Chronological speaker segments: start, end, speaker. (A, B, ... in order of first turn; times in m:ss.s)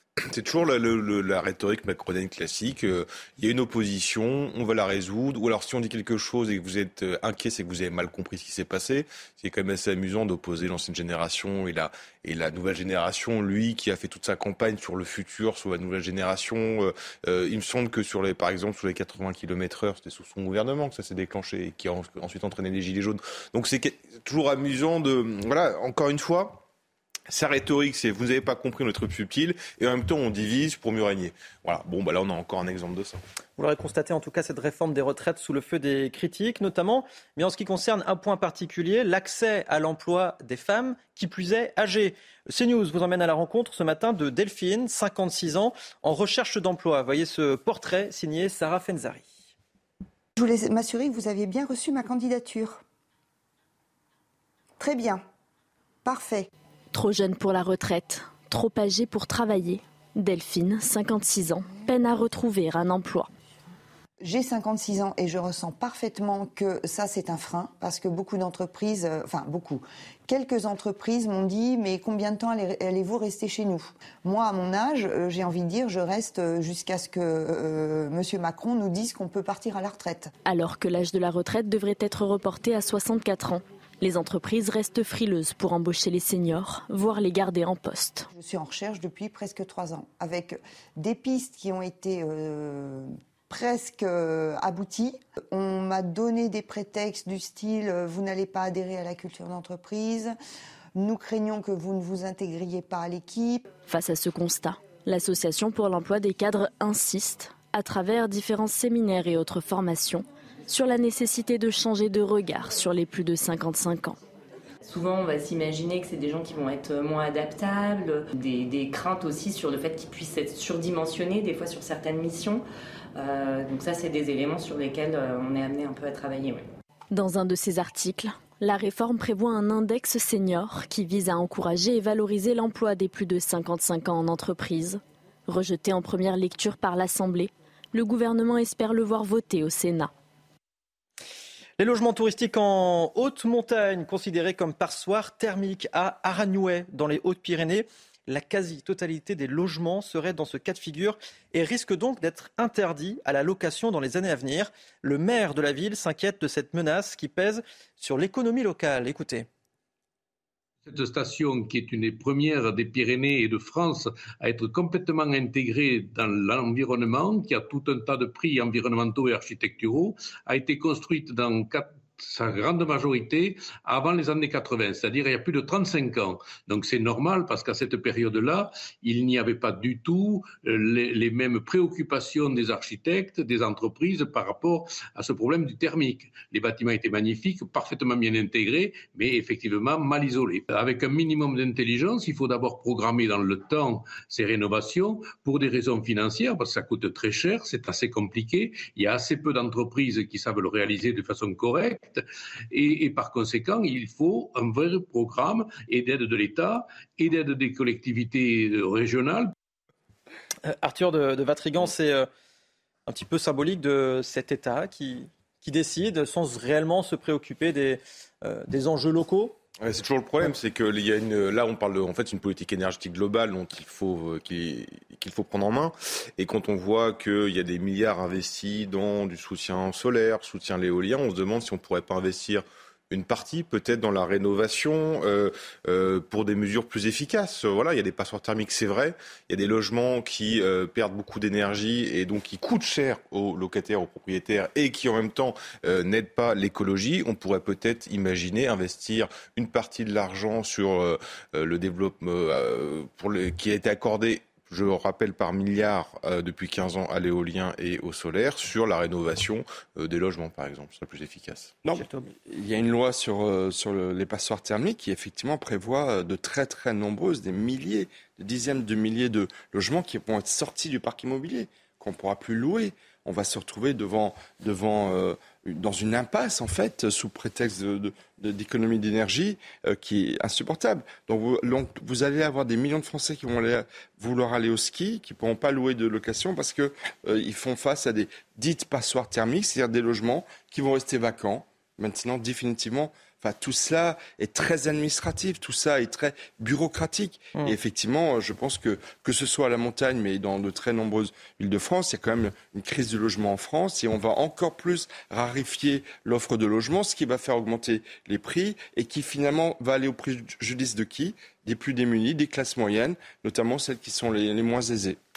0:00.3-0:26.6 A
0:27.3-0:33.2 A
0:33.6-0:49.4 B
0:50.4-0:52.8 C
0:54.8-0:55.2 C
0:56.0-0:56.5 C
0:56.9-1:03.3 D
1:04.2-1:20.3 C
1:20.4-1:28.3 D
1:28.3-1:40.3 C
1:40.9-1:43.6 C
1:43.8-1:54.2 D
1:54.9-2:02.6 E
2:03.2-2:06.6 E
2:07.1-2:20.1 D
2:21.8-2:39.5 B
2:40.8-3:29.5 F
3:30.6-3:32.3 B
3:33.1-3:39.6 B
3:39.8-4:21.8 A
4:21.8-5:15.2 G
4:22.0-4:22.2 B